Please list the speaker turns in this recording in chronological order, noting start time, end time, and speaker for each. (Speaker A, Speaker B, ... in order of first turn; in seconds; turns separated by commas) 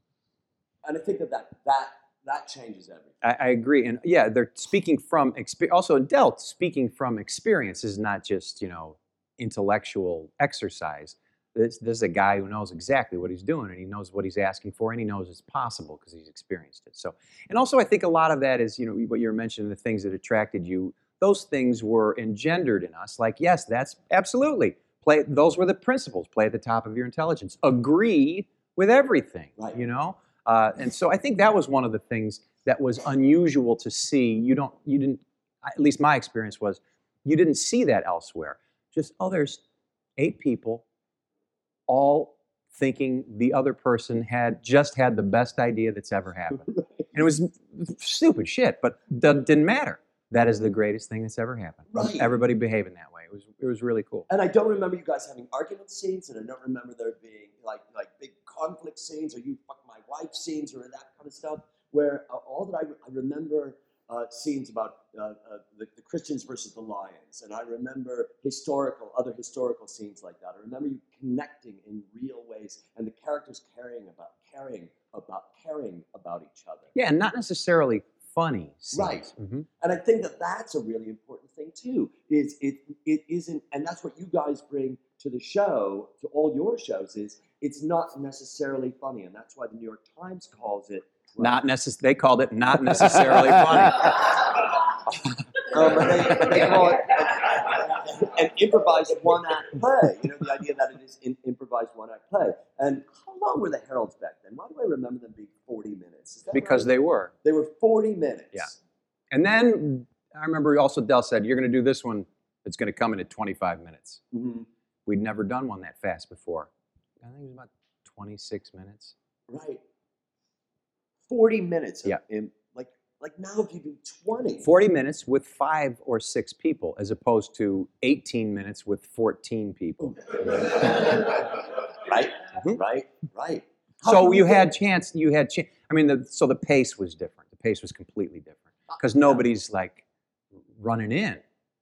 Speaker A: 0.8-3.1, Speaker B: 3.2-39.6, Speaker B: 40.2-40.8, Speaker B: 41.9-54.3, Speaker A: 46.6-47.1, Speaker A: 51.9-52.3, Speaker A: 54.3-76.9, Speaker B: 76.9-79.7, Speaker A: 78.9-91.6, Speaker B: 91.4-94.3, Speaker A: 95.7-106.9, Speaker B: 106.5-107.3, Speaker A: 107.4-108.8, Speaker B: 109.3-114.2, Speaker A: 114.3-114.7, Speaker B: 115.0-116.7, Speaker B: 117.2-119.1, Speaker A: 119.5-119.8, Speaker A: 121.3-124.7, Speaker B: 124.6-131.0, Speaker A: 130.0-134.7, Speaker B: 134.0-140.0, Speaker B: 140.7-141.4